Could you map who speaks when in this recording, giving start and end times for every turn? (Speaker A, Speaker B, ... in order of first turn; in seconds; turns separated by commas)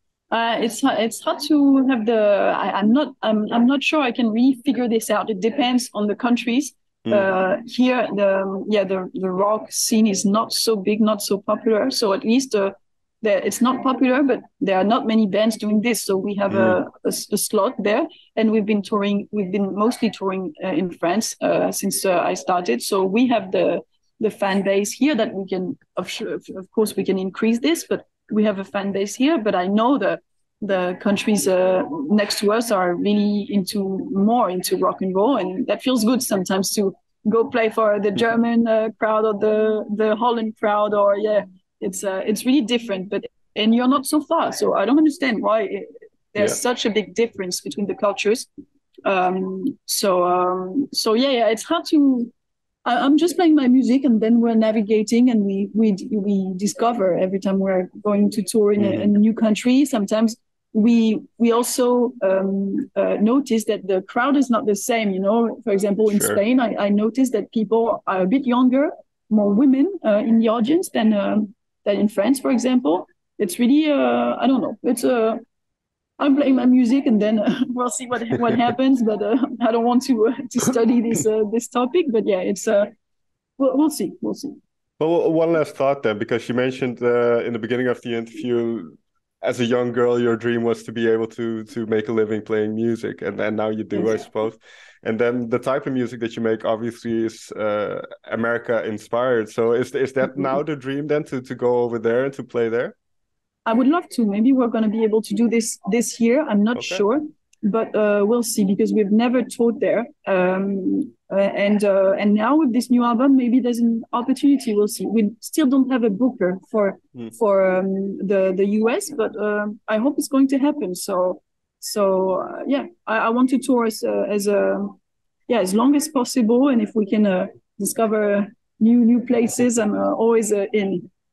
Speaker A: 0.3-48.5, Speaker B: 7.0-7.3, Speaker B: 16.5-16.8, Speaker A: 49.0-52.3, Speaker A: 52.9-75.4, Speaker B: 58.8-59.1, Speaker B: 66.1-66.4, Speaker A: 76.2-82.9, Speaker A: 83.6-84.6, Speaker B: 85.0-103.0, Speaker A: 93.9-94.2, Speaker A: 103.7-125.0, Speaker B: 106.8-107.0, Speaker A: 125.5-131.1